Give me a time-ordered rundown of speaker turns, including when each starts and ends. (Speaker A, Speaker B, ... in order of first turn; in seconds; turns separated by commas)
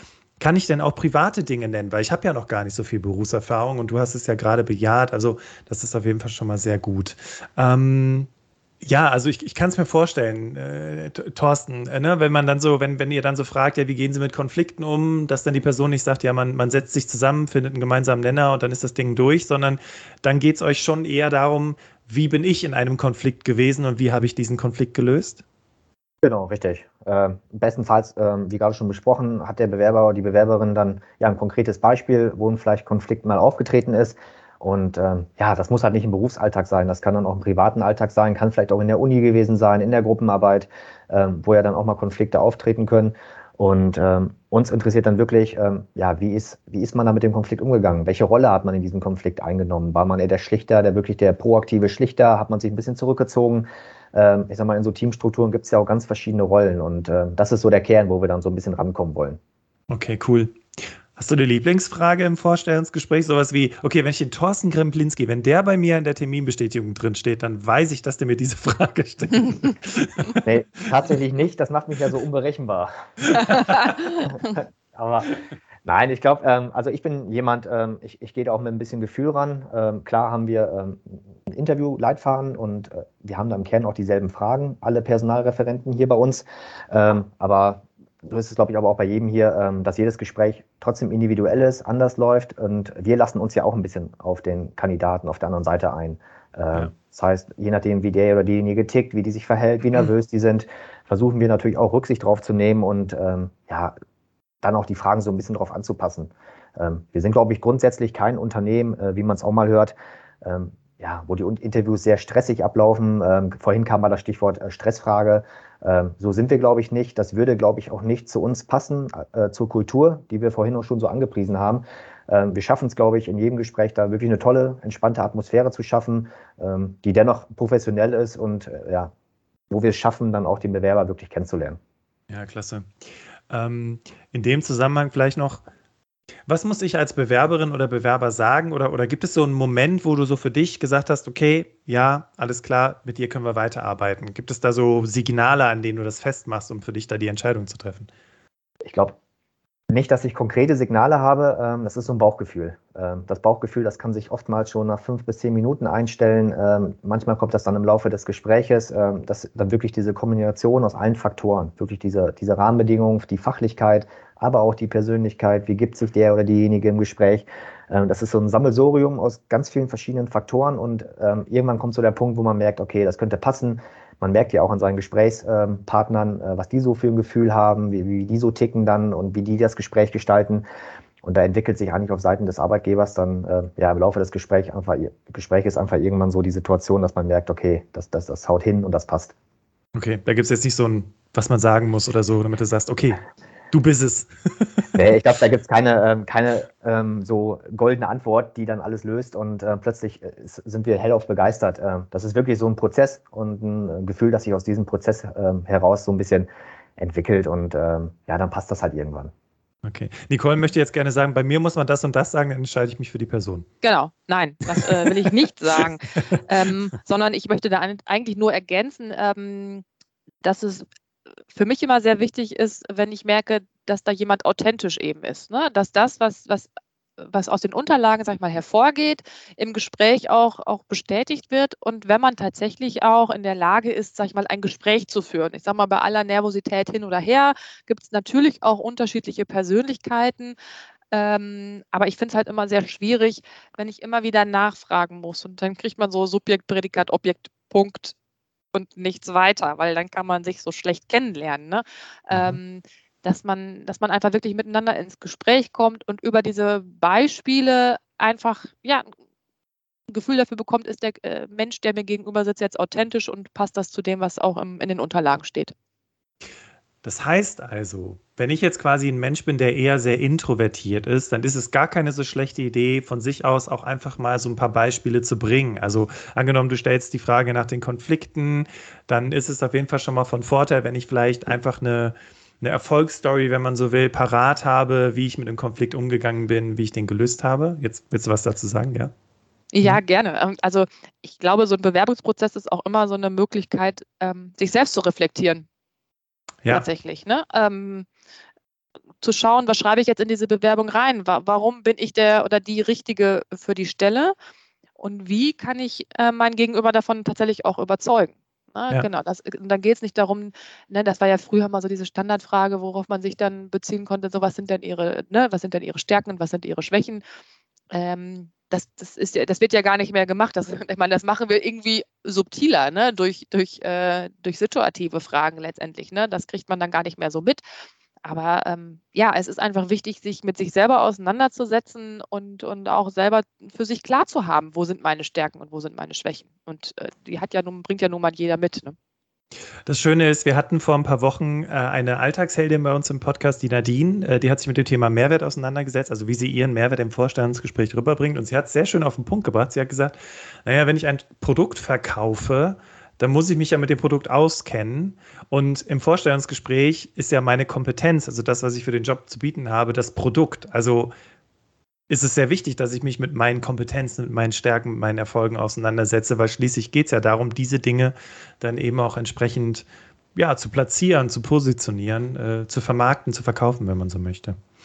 Speaker A: 0.4-8.3, Speaker A: 8.8-25.4, Speaker B: 26.2-59.4, Speaker A: 59.9-60.6, Speaker A: 61.1-70.4, Speaker B: 70.4-72.9, Speaker A: 73.3-74.0, Speaker C: 73.4-74.5, Speaker B: 74.2-104.0, Speaker B: 104.6-129.1, Speaker B: 129.7-131.8, Speaker A: 132.3-132.9, Speaker A: 133.5-135.6, Speaker A: 136.5-148.1, Speaker B: 148.9-149.2, Speaker B: 149.9-180.6, Speaker B: 181.2-189.3, Speaker A: 189.9-195.0, Speaker B: 194.9-209.3, Speaker A: 209.8-213.7, Speaker C: 213.8-219.8, Speaker A: 214.8-216.4, Speaker C: 220.4-220.9, Speaker C: 221.5-240.6, Speaker C: 241.1-248.1, Speaker C: 248.7-259.1, Speaker A: 252.3-252.6, Speaker C: 260.1-265.7, Speaker A: 267.0-289.1, Speaker C: 289.7-295.7, Speaker C: 296.7-298.1, Speaker C: 299.2-304.4, Speaker C: 305.0-317.2, Speaker C: 317.9-327.6, Speaker C: 328.2-339.0, Speaker A: 339.9-361.1, Speaker A: 362.1-374.6